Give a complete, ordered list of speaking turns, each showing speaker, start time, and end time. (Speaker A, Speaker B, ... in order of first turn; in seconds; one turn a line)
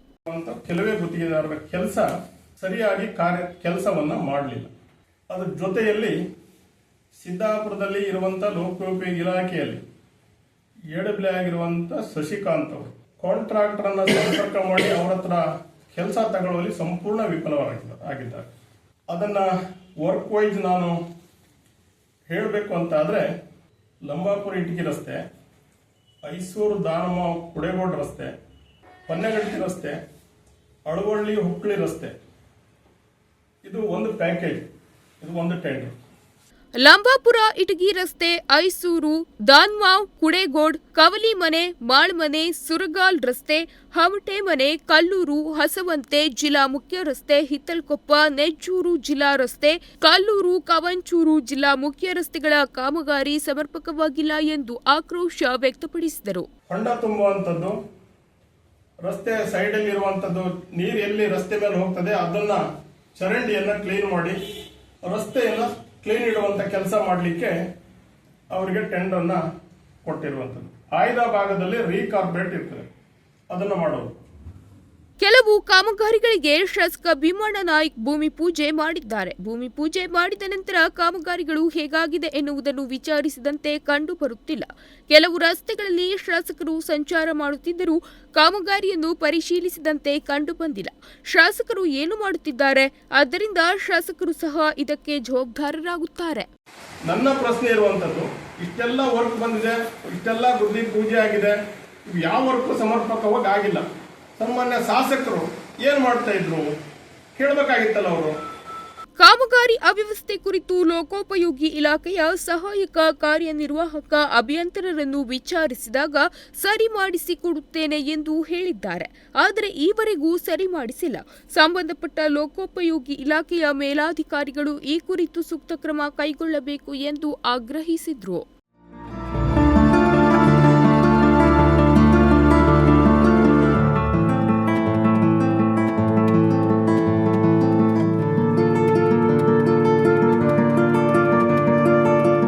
Speaker A: 0.3-4.7
Speaker A: 5.3-6.2
Speaker A: 7.2-9.8
Speaker A: 10.9-18.5
Speaker A: 19.1-19.5
Speaker A: 20.0-21.0
Speaker A: 22.3-23.3
Speaker A: 24.1-25.2
Speaker A: 26.2-28.3
Speaker A: 29.1-30.0
Speaker A: 30.9-32.1
Speaker A: 33.6-34.6
Speaker A: 35.2-35.9
Speaker B: 36.8-56.5
Speaker A: 56.7-57.8
Speaker A: 59.0-62.6
Speaker A: 63.2-64.4
Speaker A: 65.1-67.6
Speaker A: 68.5-69.4
Speaker A: 70.0-72.9
Speaker A: 73.5-74.1
Speaker B: 75.2-96.5
Speaker A: 97.0-103.9
Speaker A: 104.4-106.7
Speaker A: 107.4-108.4
Speaker B: 109.2-128.4